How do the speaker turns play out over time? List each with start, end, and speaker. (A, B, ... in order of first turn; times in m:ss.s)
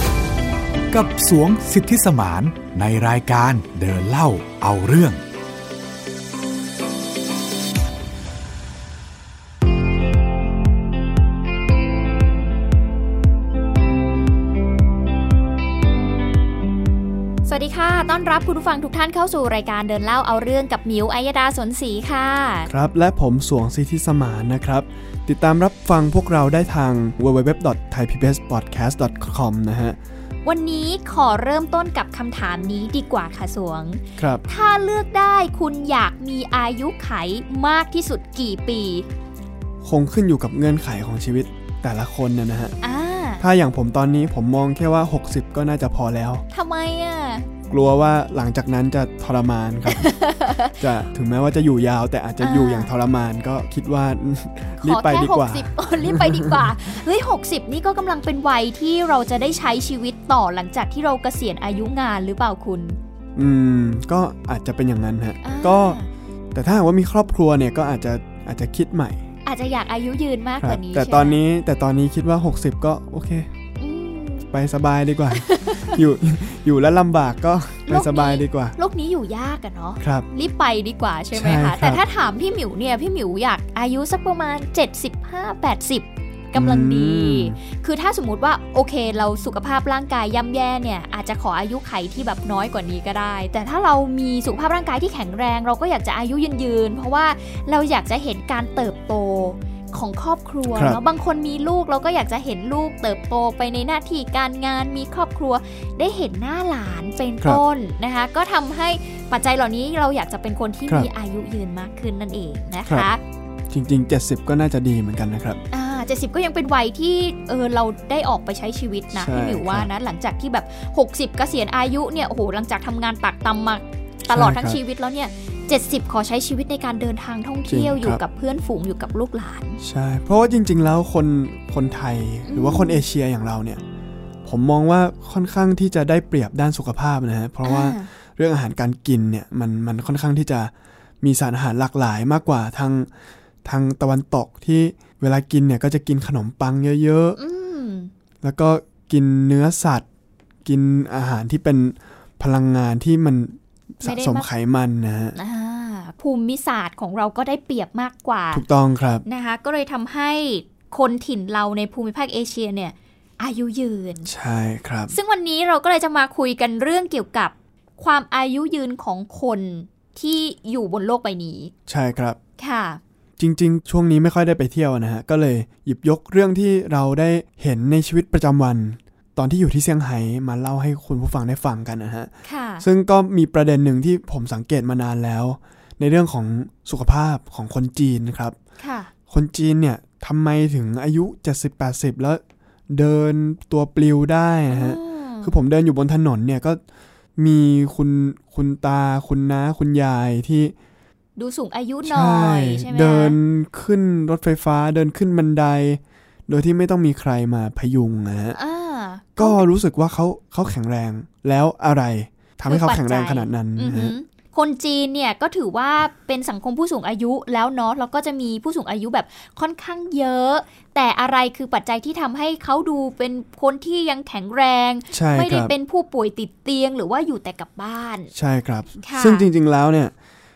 0:00.9-0:05.2 A
0:17.4-0:22.7 B
0:22.7-0:30.0 C
0:30.4-0:39.1 B
0:34.2-0:34.4 C
0:39.8-0:42.7 C
0:42.8-0:43.4 B
0:43.4-0:46.4 C
0:46.5-0:47.5 B
0:47.7-0:50.1 C
0:49.8-0:50.8 B
0:50.8-0:56.8 C
0:52.4-0:52.9 B
0:54.8-1:03.0 B
1:03.4-1:06.0 C
1:05.4-1:06.1 B
1:06.5-1:09.2 C
1:09.4-1:11.4 B
1:10.6-1:13.5 C
1:13.8-1:14.5 B
1:14.5-1:18.8 C
1:15.3-1:16.0 B
1:17.8-1:53.2 B
1:20.0-1:20.3 C
1:21.3-1:22.0 C
1:26.5-1:27.6 C
1:40.7-1:41.0 C
1:53.7-1:55.6 C
1:55.7-2:09.8 B
1:59.1-1:59.9 C
2:04.3-2:04.8 C
2:07.7-2:08.2 C
2:09.8-2:13.8 C
2:12.4-2:13.0 B
2:14.4-2:23.1 C
2:17.6-2:18.1 B
2:23.6-2:27.4 C
2:27.4-2:28.1 B
2:28.4-2:30.0 C
2:30.6-2:35.4 C
2:34.0-2:34.5 B
2:35.4-2:38.6 B
2:38.5-2:39.2 C
2:39.2-2:44.3 B
2:44.2-2:45.2 C
2:45.1-2:51.7 B
2:51.9-2:52.4 C
2:52.6-2:53.0 B
2:53.4-3:08.6 C
3:02.4-3:02.8 B
3:08.8-3:09.1 B
3:09.3-3:16.8 C
3:14.7-3:15.6 B
3:17.4-3:20.7 C
3:21.4-3:23.4 B
3:22.0-3:28.6 C
3:28.5-3:29.6 B
3:29.4-3:34.1 C
3:32.7-3:48.3 B
3:45.1-3:45.7 C
3:48.3-3:50.1 C
3:49.0-3:49.5 B